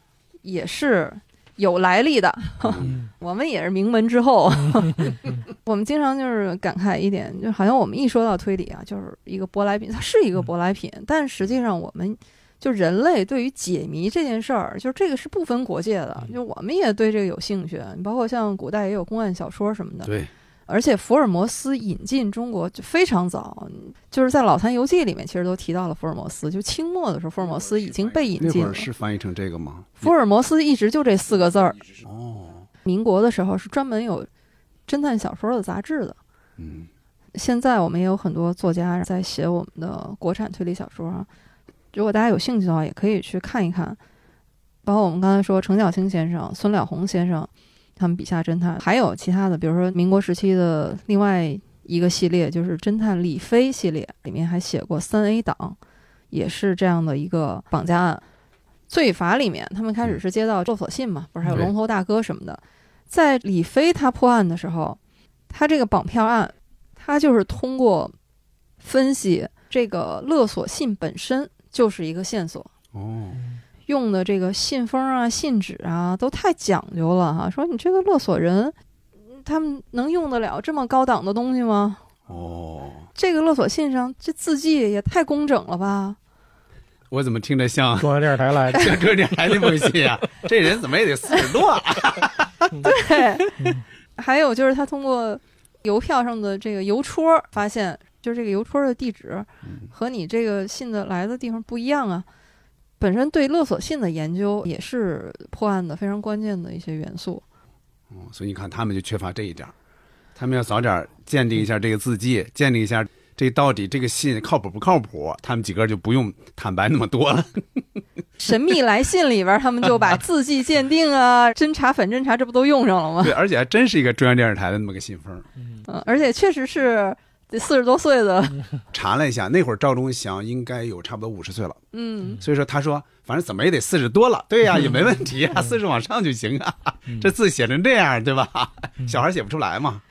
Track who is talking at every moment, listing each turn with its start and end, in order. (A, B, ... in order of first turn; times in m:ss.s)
0:00.4-0:20.1 A
0:02.6-0:02.9 B
0:02.8-0:03.1 C
0:04.8-0:05.1 C
0:20.0-0:20.3 B
0:20.7-0:28.9 A
0:28.4-0:30.1 B
0:30.0-0:31.8 A
0:32.0-0:32.6 B
0:32.8-0:34.3 A
0:34.9-0:36.2 A
0:36.6-0:36.9 B
0:37.3-0:41.3 A
0:41.9-0:44.0 A
0:44.8-0:55.8 A
0:56.3-0:58.2 A
0:58.9-1:05.0 A
1:05.5-1:08.1 A
1:08.8-1:12.7 A
1:12.9-1:13.4 B
1:13.3-1:13.6 C
1:13.9-1:18.7 A
1:19.3-1:22.0 A
1:22.3-1:23.1 B
1:23.1-1:26.2 A
1:27.1-1:28.2 B
1:28.0-1:29.9 C
1:28.7-1:32.8 B
1:32.8-1:33.6 A
1:33.6-1:33.8 C
1:34.2-1:42.2 A
1:43.0-1:47.4 A
1:48.1-1:49.7 B
1:50.4-1:57.6 B
1:58.4-2:03.4 A
2:03.2-2:05.5 B
2:05.8-2:08.6 A
2:08.9-2:11.8 B
2:11.9-2:12.4 A
2:12.4-2:20.0 B